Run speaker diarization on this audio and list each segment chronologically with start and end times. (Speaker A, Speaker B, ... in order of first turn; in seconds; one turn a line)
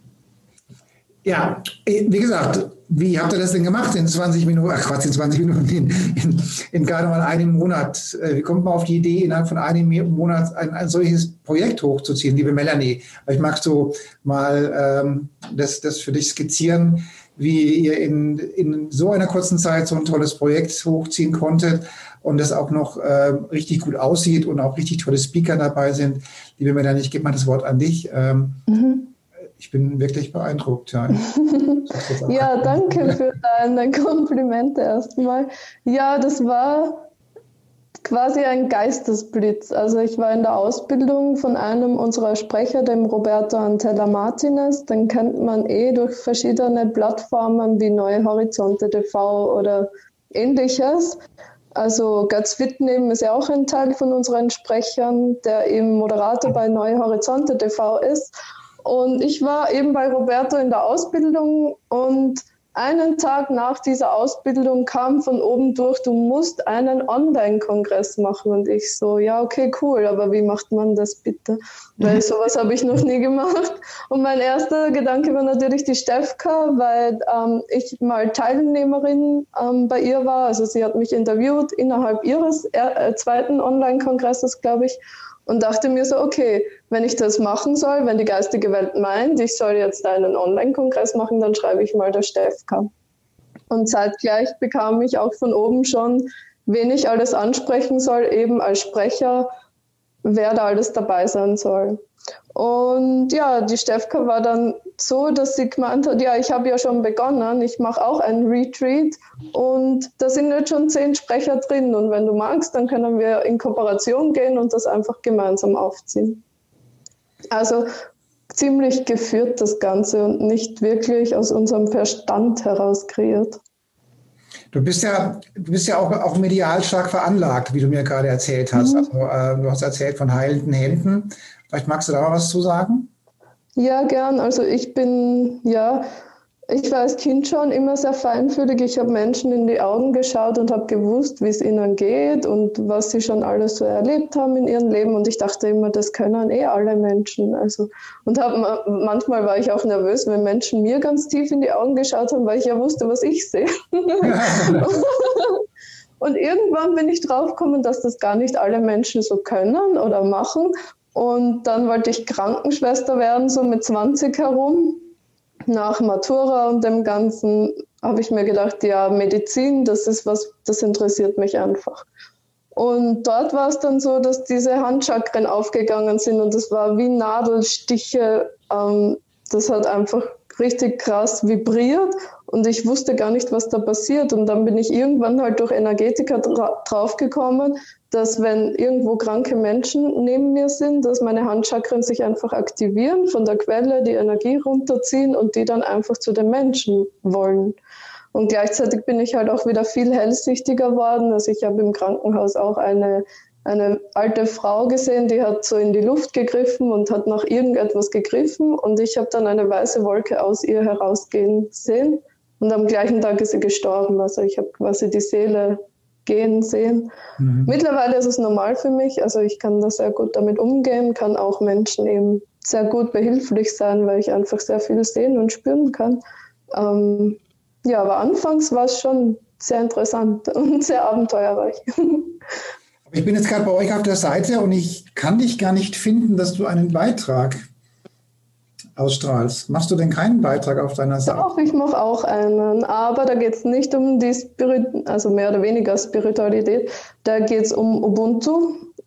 Speaker A: 1.2-28.6
Speaker B: 28.7-29.1
Speaker A: 29.6-31.3
Speaker B: 31.2-37.1
Speaker A: 31.9-33.2
Speaker B: 38.0-51.2
Speaker B: 51.7-58.3
Speaker B: 58.8-92.9
Speaker B: 93.7-99.5
Speaker B: 100.2-102.0
Speaker B: 102.5-116.4
Speaker B: 117.5-117.9
Speaker B: 118.5-123.6
Speaker A: 124.7-133.1
Speaker B: 128.8-129.1
Speaker B: 133.8-136.1
Speaker B: 136.7-155.6
Speaker A: 154.2-155.0
Speaker B: 156.2-165.0
Speaker B: 165.7-172.1
Speaker B: 172.7-197.8
Speaker B: 198.3-217.1
Speaker A: 217.4-217.7
Speaker B: 217.7-226.2
Speaker B: 226.7-232.4
Speaker A: 233.1-237.6
Speaker A: 238.9-241.5
Speaker B: 241.2-248.9